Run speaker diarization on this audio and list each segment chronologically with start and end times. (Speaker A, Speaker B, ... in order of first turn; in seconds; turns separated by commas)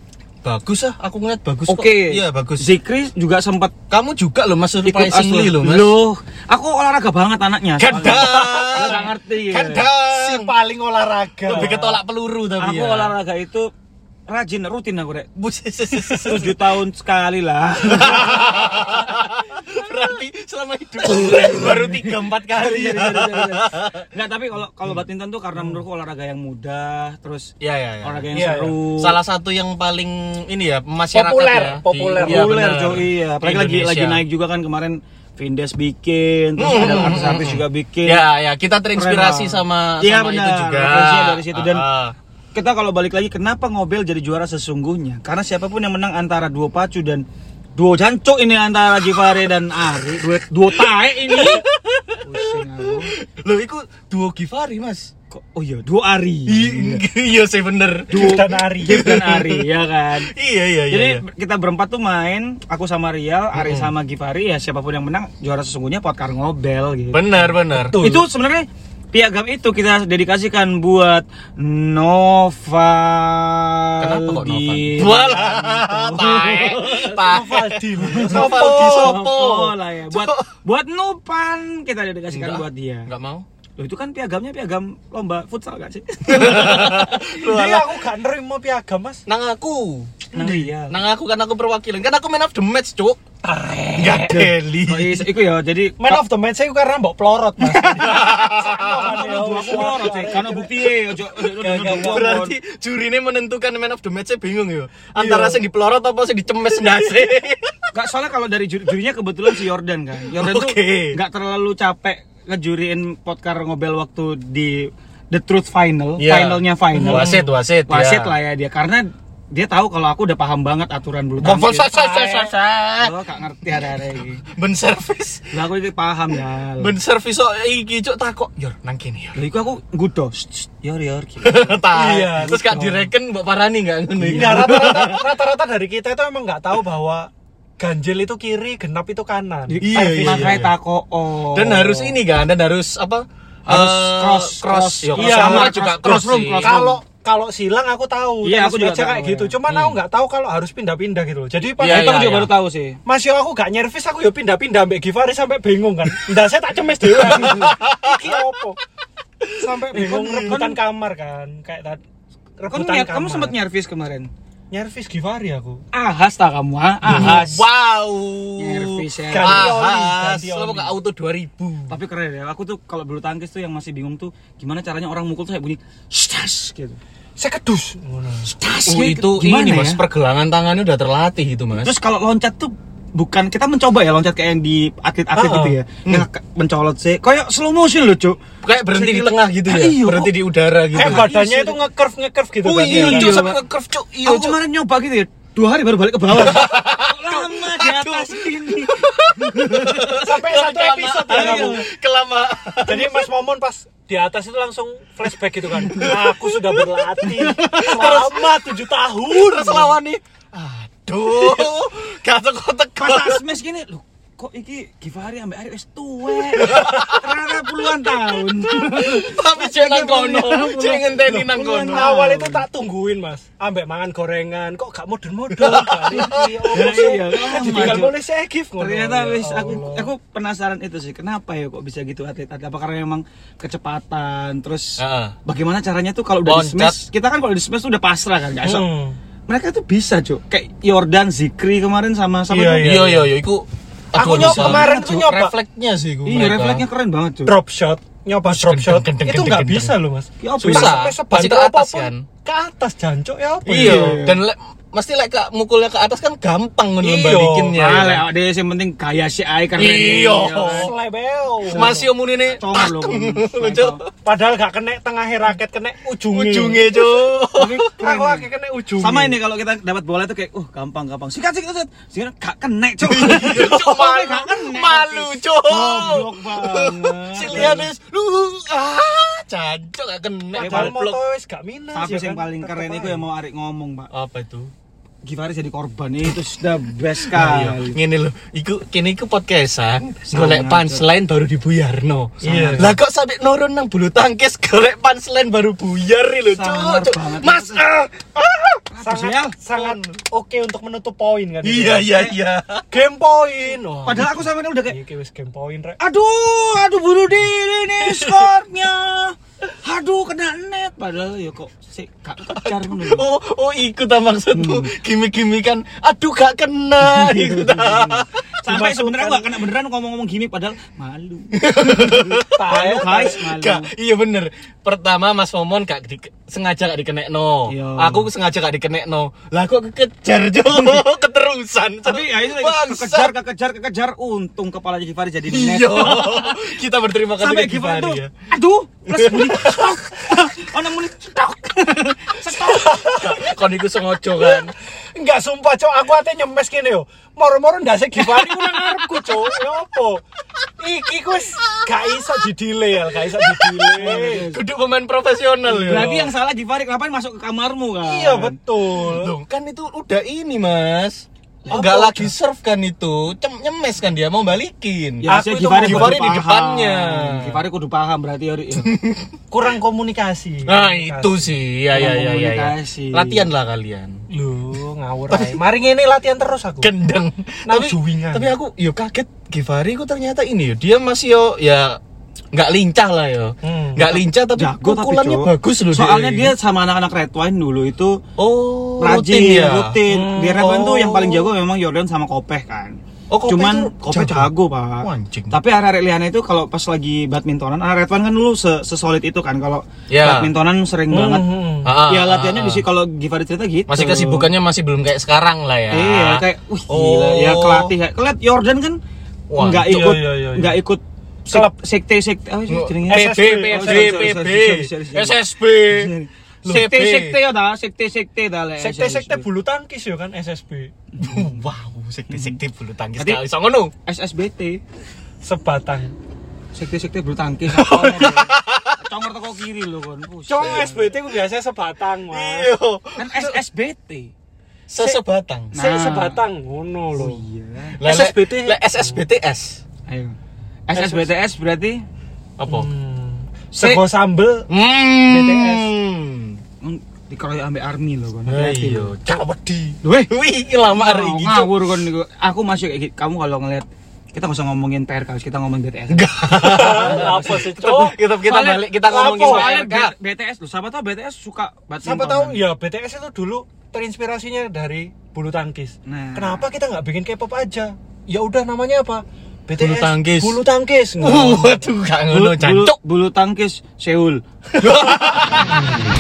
Speaker A: 0.4-2.7, Speaker B: 1.7-3.8, Speaker A: 3.9-6.0, Speaker B: 4.8-9.9, Speaker A: 7.8-10.5, Speaker C: 8.0-9.1, Speaker C: 10.1-11.8, Speaker B: 11.5-12.0, Speaker A: 11.5-13.1, Speaker B: 12.6-13.7, Speaker B: 14.3-15.3, Speaker A: 15.4-16.6, Speaker B: 15.9-19.0, Speaker A: 17.8-24.1, Speaker B: 21.1-29.2, Speaker A: 27.6-28.3, Speaker C: 28.3-28.8, Speaker A: 29.0-34.2, Speaker C: 31.1-32.8, Speaker B: 32.2-38.3, Speaker A: 36.6-42.1, Speaker B: 39.0-41.9, Speaker B: 42.5-47.2, Speaker B: 47.8-51.6, Speaker A: 49.0-49.4, Speaker A: 50.8-55.1, Speaker B: 52.2-53.1, Speaker B: 55.3-57.0, Speaker A: 56.5-59.7, Speaker B: 58.1-60.3, Speaker C: 58.1-59.1, Speaker A: 60.2-61.2, Speaker B: 60.9-77.2, Speaker A: 63.5-63.9, Speaker A: 67.1-68.0, Speaker C: 67.7-68.3, Speaker A: 74.0-80.5, Speaker C: 77.1-79.2, Speaker B: 78.0-83.1, Speaker A: 82.3-83.5, Speaker B: 83.8-87.2, Speaker A: 86.3-88.0, Speaker C: 87.3-89.2, Speaker A: 89.3-90.3, Speaker B: 90.3-91.0, Speaker A: 90.9-93.2, Speaker C: 93.4-94.5, Speaker A: 94.0-95.3, Speaker B: 94.9-96.2, Speaker C: 96.0-100.9, Speaker B: 97.6-98.4, Speaker A: 98.0-100.0, Speaker B: 99.0-102.5, Speaker C: 101.6-102.4, Speaker A: 101.7-107.9, Speaker B: 107.9-121.9, Speaker A: 110.3-111.2, Speaker A: 116.2-118.3, Speaker C: 117.0-117.5, Speaker A: 121.4-123.1, Speaker C: 121.8-122.5, Speaker B: 123.0-124.4, Speaker A: 124.5-125.6, Speaker B: 125.5-127.0, Speaker A: 126.8-129.4, Speaker B: 129.4-131.8, Speaker A: 131.4-135.3, Speaker C: 131.9-132.9, Speaker B: 132.5-133.1, Speaker B: 134.2-134.9, Speaker C: 134.3-140.6, Speaker B: 139.7-142.2, Speaker A: 139.8-140.7, Speaker A: 141.5-146.8, Speaker B: 143.7-147.0, Speaker C: 145.2-145.8, Speaker C: 146.6-152.2, Speaker B: 148.4-149.6, Speaker A: 149.7-150.0, Speaker A: 151.8-152.5, Speaker B: 151.8-153.0, Speaker C: 153.1-158.8, Speaker A: 157.2-158.4, Speaker C: 159.6-162.0, Speaker B: 159.9-160.8, Speaker A: 160.3-160.6, Speaker C: 162.6-163.6, Speaker B: 162.7-164.3, Speaker C: 164.7-165.8, Speaker B: 165.9-167.6, Speaker A: 167.1-172.0, Speaker C: 167.1-167.4, Speaker B: 168.6-169.7, Speaker C: 169.3-170.9, Speaker B: 171.9-177.0, Speaker C: 177.4-178.5, Speaker B: 178.5-180.0, Speaker A: 178.8-181.9, Speaker B: 181.8-188.4, Speaker C: 185.3-185.8, Speaker A: 188.6-191.3, Speaker B: 188.9-190.3, Speaker B: 190.9-191.8, Speaker C: 190.9-193.5, Speaker A: 192.6-194.6, Speaker B: 192.8-193.6, Speaker B: 194.2-200.2, Speaker A: 196.3-203.3, Speaker C: 200.2-201.8, Speaker B: 201.3-201.8, Speaker C: 202.8-210.0, Speaker A: 205.8-208.7, Speaker B: 207.4-208.2, Speaker A: 209.3-213.4, Speaker B: 213.0-222.7, Speaker A: 216.5-222.1, Speaker C: 221.9-230.1, Speaker A: 225.5-228.1, Speaker B: 226.7-228.2, Speaker B: 228.8-238.9, Speaker A: 235.0-235.4, Speaker A: 236.4-237.0, Speaker C: 238.6-239.2, Speaker B: 239.5-243.1, Speaker C: 242.5-243.3, Speaker A: 242.8-246.8, Speaker C: 244.2-245.5, Speaker B: 244.2-245.2, Speaker B: 246.2-247.5, Speaker C: 247.5-254.2, Speaker A: 248.5-250.0, Speaker B: 250.4-251.1, Speaker A: 250.6-252.3, Speaker A: 253.7-258.3, Speaker B: 253.7-254.4, Speaker C: 257.0-257.8, Speaker B: 257.8-260.9, Speaker A: 259.8-260.9, Speaker C: 260.6-262.0, Speaker A: 261.7-264.1, Speaker B: 261.7-264.0, Speaker C: 264.2-267.0, Speaker A: 266.3-267.9, Speaker B: 267.5-277.9, Speaker C: 268.0-269.4, Speaker A: 273.0-281.2, Speaker C: 280.5-283.2, Speaker B: 280.6-281.0, Speaker B: 281.9-284.1, Speaker A: 284.1-284.7, Speaker B: 285.2-288.0, Speaker A: 287.3-298.8, Speaker B: 290.3-291.0, Speaker B: 292.4-292.9, Speaker C: 292.4-292.9, Speaker B: 296.5-297.9, Speaker B: 298.9-299.6, Speaker C: 299.0-302.3, Speaker A: 299.7-300.2, Speaker A: 301.6-302.9, Speaker C: 302.9-306.0, Speaker B: 304.1-305.0, Speaker B: 306.0-313.3, Speaker A: 308.1-308.5, Speaker A: 312.5-318.3, Speaker B: 314.5-314.9, Speaker B: 317.0-323.9, Speaker C: 318.7-319.5, Speaker A: 321.5-333.4, Speaker C: 322.5-323.4, Speaker B: 327.7-328.3, Speaker B: 332.1-336.8, Speaker A: 335.5-338.4, Speaker B: 337.4-343.1, Speaker A: 339.1-340.0, Speaker C: 342.5-343.5, Speaker A: 343.2-344.7, Speaker C: 345.1-350.2, Speaker A: 348.4-349.4, Speaker C: 350.8-354.5, Speaker A: 351.8-352.1, Speaker A: 353.4-356.2, Speaker B: 353.9-354.6, Speaker C: 355.7-356.3, Speaker B: 355.8-358.6, Speaker C: 358.1-359.3, Speaker A: 358.9-367.6, Speaker B: 361.6-362.2, Speaker C: 361.7-362.3, Speaker B: 365.2-368.9, Speaker C: 365.3-366.2, Speaker A: 368.8-369.4, Speaker C: 369.5-371.5, Speaker A: 370.7-374.2, Speaker B: 371.9-373.5, Speaker C: 374.3-376.9, Speaker A: 375.3-375.6, Speaker A: 376.8-382.0, Speaker C: 377.7-378.6, Speaker A: 382.5-386.6, Speaker C: 383.6-384.2, Speaker B: 384.1-388.2, Speaker A: 388.4-391.5, Speaker B: 389.0-392.9, Speaker C: 390.1-390.7, Speaker A: 393.3-395.6, Speaker B: 393.5-404.5, Speaker A: 400.1-400.5, Speaker C: 401.1-401.9, Speaker A: 401.8-402.9, Speaker A: 403.9-407.9, Speaker B: 405.9-409.0, Speaker A: 409.5-410.2, Speaker B: 409.6-419.4, Speaker C: 409.8-410.8, Speaker A: 412.7-416.1, Speaker C: 413.1-414.3, Speaker A: 416.6-417.4, Speaker C: 418.8-420.9, Speaker B: 421.1-421.6, Speaker A: 421.2-423.9, Speaker B: 422.3-422.6, Speaker B: 424.1-424.8, Speaker C: 425.4-426.1, Speaker B: 426.7-431.1, Speaker A: 427.7-429.0, Speaker C: 430.5-432.7, Speaker A: 432.3-433.6, Speaker B: 433.2-434.3, Speaker A: 434.9-435.7, Speaker C: 435.7-437.4, Speaker B: 435.7-436.4, Speaker B: 437.1-438.0, Speaker A: 438.0-439.8, Speaker C: 438.0-439.2, Speaker B: 440.1-440.4, Speaker B: 440.9-442.0, Speaker C: 440.9-441.3, Speaker A: 442.6-442.9, Speaker C: 442.6-444.7, Speaker B: 443.7-444.0, Speaker A: 444.7-446.6, Speaker B: 445.4-445.8, Speaker B: 446.8-449.1, Speaker A: 448.5-449.5, Speaker C: 449.3-450.0, Speaker B: 450.0-450.3, Speaker A: 450.2-451.9, Speaker B: 450.9-457.6, Speaker A: 456.1-460.1, Speaker C: 456.5-458.2, Speaker B: 458.4-462.6, Speaker C: 459.1-459.9, Speaker C: 462.0-471.8, Speaker B: 466.1-466.6, Speaker A: 469.8-470.6, Speaker A: 471.2-473.0, Speaker B: 472.3-474.4, Speaker A: 474.8-475.9